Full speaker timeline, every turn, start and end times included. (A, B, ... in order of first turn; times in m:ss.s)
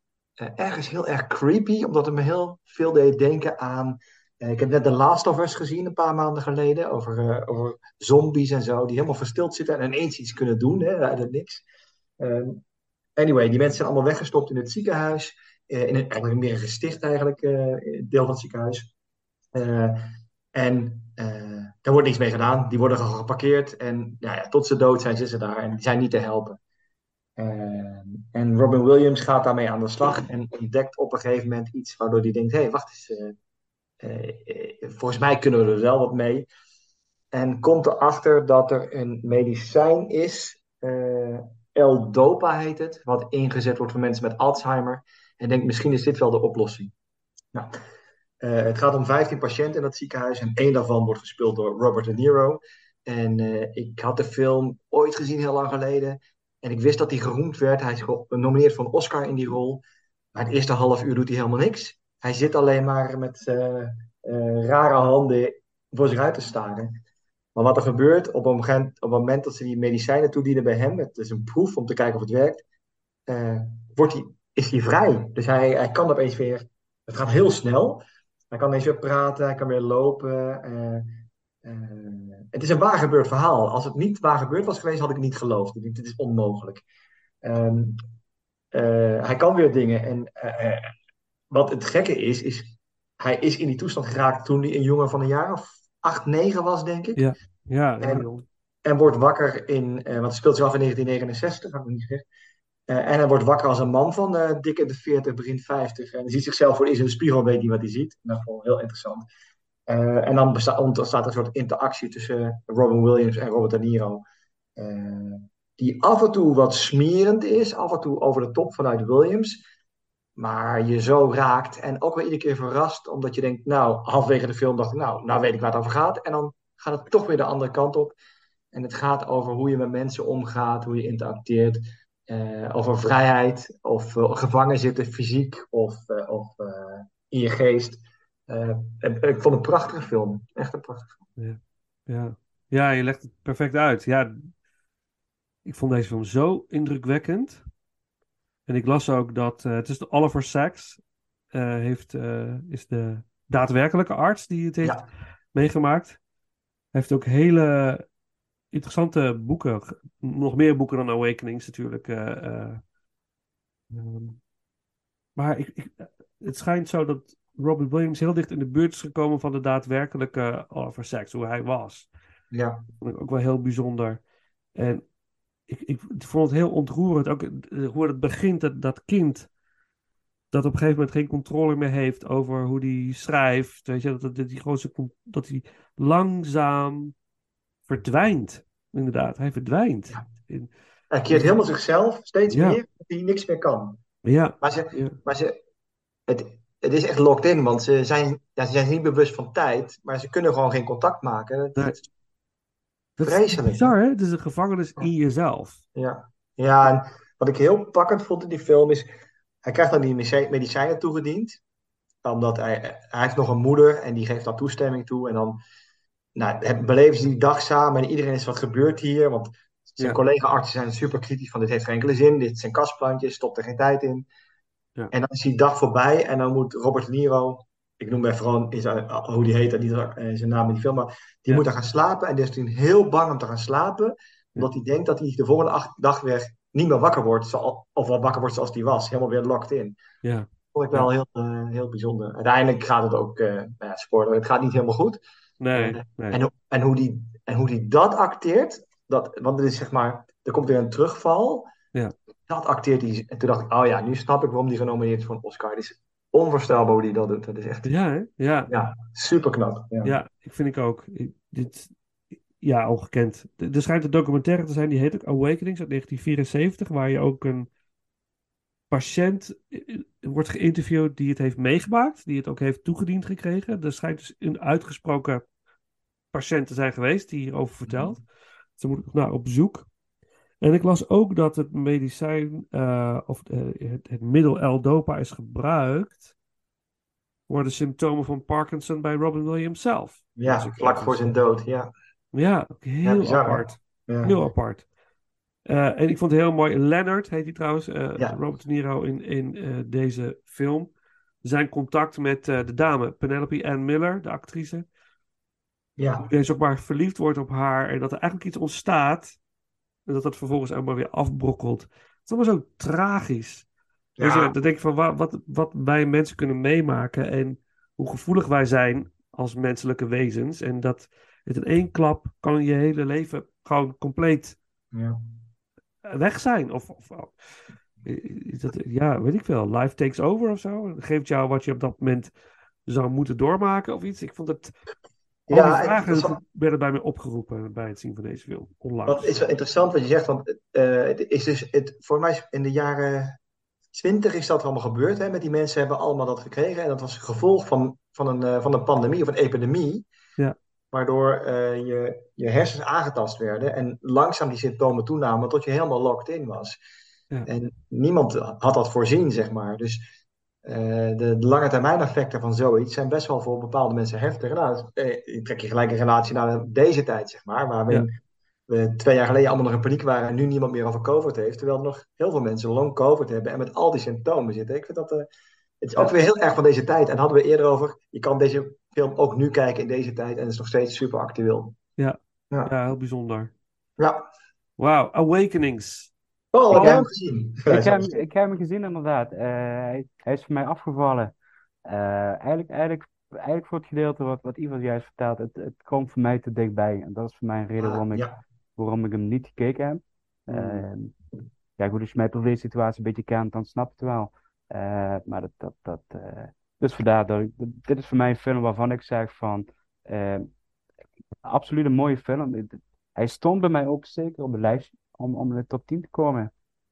0:00.4-0:11.6 A
0:12.2-0:12.6 A
0:13.2-0:18.9 A
0:19.5-0:26.6 A
0:27.4-0:33.4 A
0:34.0-0:36.5 A
0:37.3-0:46.9 A
0:48.4-1:07.0 A
1:07.6-1:12.6 A
1:13.3-1:21.1 A
1:21.6-1:26.8 A
1:27.4-1:28.0 A
1:28.7-1:30.9 A
1:31.5-1:37.2 A
1:37.2-1:38.4 B
1:38.0-1:38.3 A
1:38.8-1:42.2 A
1:42.9-1:49.3 A
1:49.9-1:54.2 A
1:54.8-1:59.6 A
2:00.4-2:08.2 A
2:08.7-2:21.2 A
2:21.4-2:24.5 B
2:25.6-2:27.6 B
2:28.7-2:31.0 B
2:31.5-2:35.0 B
2:35.5-2:36.2 B
2:36.9-2:38.0 B
2:38.7-2:42.8 B
2:43.9-2:44.4 B
2:45.4-2:52.1 B
2:52.5-2:52.8 A
2:53.0-2:54.2 B
2:54.8-2:55.0 B
2:55.7-2:59.5 B
3:00.5-3:07.2 B
3:07.9-3:10.7 B
3:11.1-3:14.0 A
3:11.3-3:11.6 B
3:12.5-3:12.8 B
3:14.2-3:15.2 B
3:14.6-3:15.6 A
3:16.3-3:22.0 A
3:23.2-3:25.8 B
3:23.2-3:23.9 A
3:26.0-3:29.1 A
3:29.6-3:31.6 A
3:32.2-3:35.6 A
3:36.4-3:44.3 A
3:45.1-4:00.0 A
4:00.2-4:01.1 B
4:00.7-4:05.2 A
4:05.6-4:06.4 B
4:05.7-4:11.7 A
4:12.5-4:17.9 A
4:17.8-4:18.7 B
4:18.7-4:20.2 A
4:20.0-4:21.9 B
4:22.6-4:27.7 B
4:28.9-4:35.4 B
4:36.3-4:38.2 B
4:37.9-4:38.2 A
4:38.8-4:39.9 B
4:40.6-4:46.3 B
4:47.5-4:51.3 B
4:50.4-4:51.9 A
4:52.3-4:54.8 B
4:53.0-4:54.4 A
4:55.7-5:00.9 B
5:01.4-5:04.8 B
5:06.0-5:06.3 A
5:06.2-5:09.4 B
5:10.1-5:13.7 B
5:14.2-5:14.5 A
5:14.2-5:24.6 B
5:24.9-5:25.2 A
5:26.0-5:27.4 B
5:28.0-5:32.3 B
5:32.9-5:34.7 B
5:35.5-5:36.4 A
5:35.5-5:39.5 B
5:39.1-5:43.4 A
5:43.9-5:50.1 A
5:50.9-5:56.8 A
5:57.4-6:00.1 A
6:00.6-6:08.1 A
6:08.7-6:15.3 A
6:15.8-6:21.8 A
6:22.0-6:23.5 B
6:24.0-6:24.3 A
6:24.8-6:26.1 B
6:26.5-6:28.2 A
6:26.7-6:27.0 B
6:26.7-6:27.0 C
6:27.7-6:31.3 C
6:31.9-6:41.1 C
6:37.8-6:38.4 A
6:40.5-6:40.8 A
6:41.8-6:50.5 C
6:51.4-6:56.5 C